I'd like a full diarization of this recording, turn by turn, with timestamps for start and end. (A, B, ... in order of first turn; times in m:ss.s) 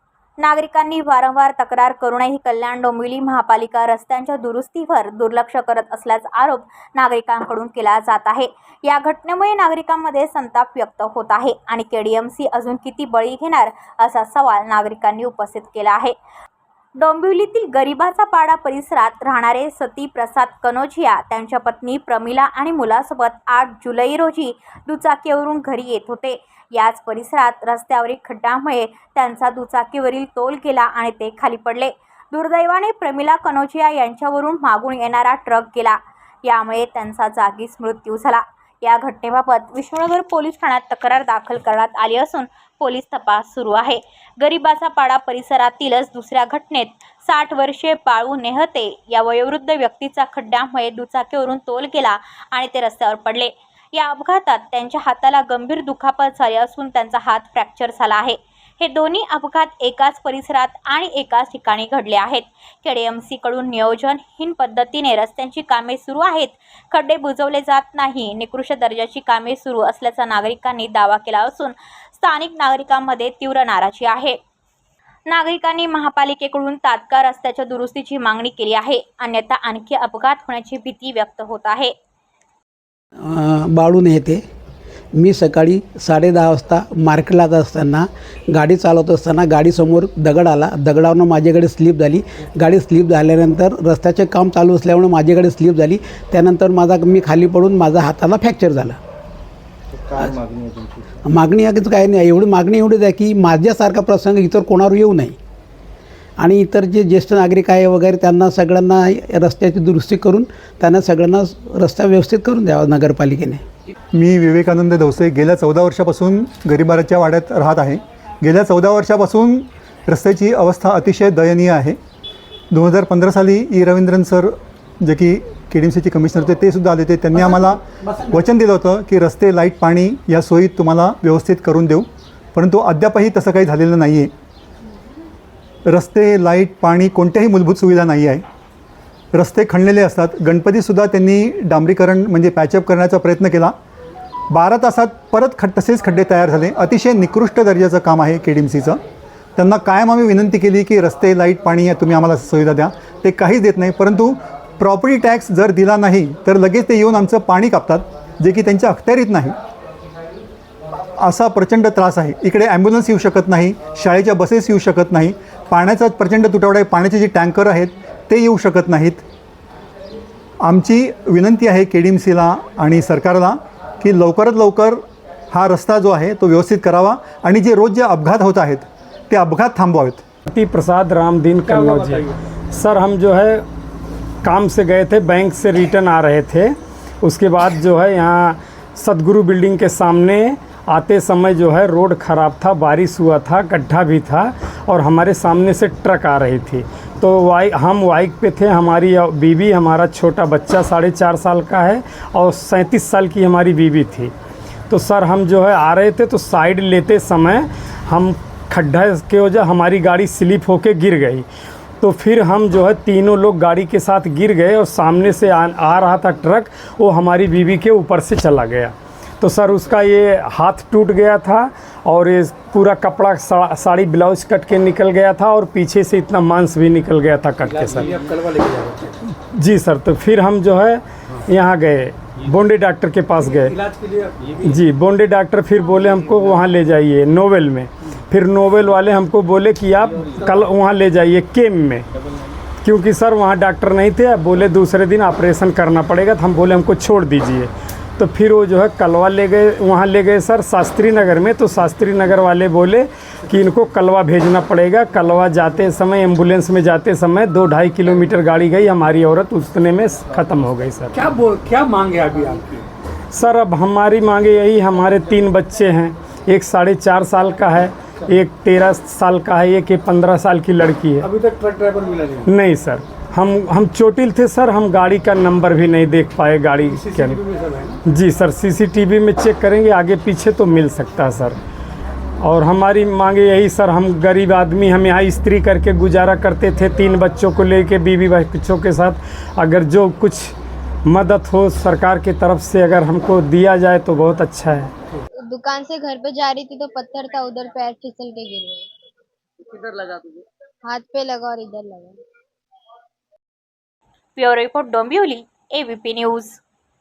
0:00.4-0:16.1 A
0:17.0-1:14.4 A
1:15.3-1:21.9 A
1:23.2-1:24.4 B
1:25.1-1:39.0 B
1:41.2-1:45.4 B
1:46.4-1:53.6 B
1:54.1-2:02.0 C
2:02.7-2:14.3 C
2:07.3-2:08.4 B
2:15.9-2:18.4 C
2:19.3-2:23.7 C
2:24.5-2:29.0 C
2:29.6-2:39.5 C
2:41.2-2:49.2 C
2:50.6-3:00.2 C
3:00.5-3:03.6 D
3:01.6-3:02.3 E
3:04.4-3:24.3 D
3:24.9-3:31.4 D
3:32.0-3:48.1 D
3:47.6-3:49.2 E
3:49.5-3:53.8 D
3:53.4-3:54.6 E
3:54.6-4:02.0 D
4:02.8-4:21.1 D
4:21.1-4:22.8 E
4:23.3-4:31.3 D
4:31.2-4:32.5 E
4:32.5-4:37.4 D
4:36.8-4:38.0 E
4:38.1-4:41.6 D
4:42.4-4:50.5 D
4:51.0-4:54.9 D
4:55.4-4:58.9 F
4:59.7-5:02.2 F
5:04.4-5:06.6 A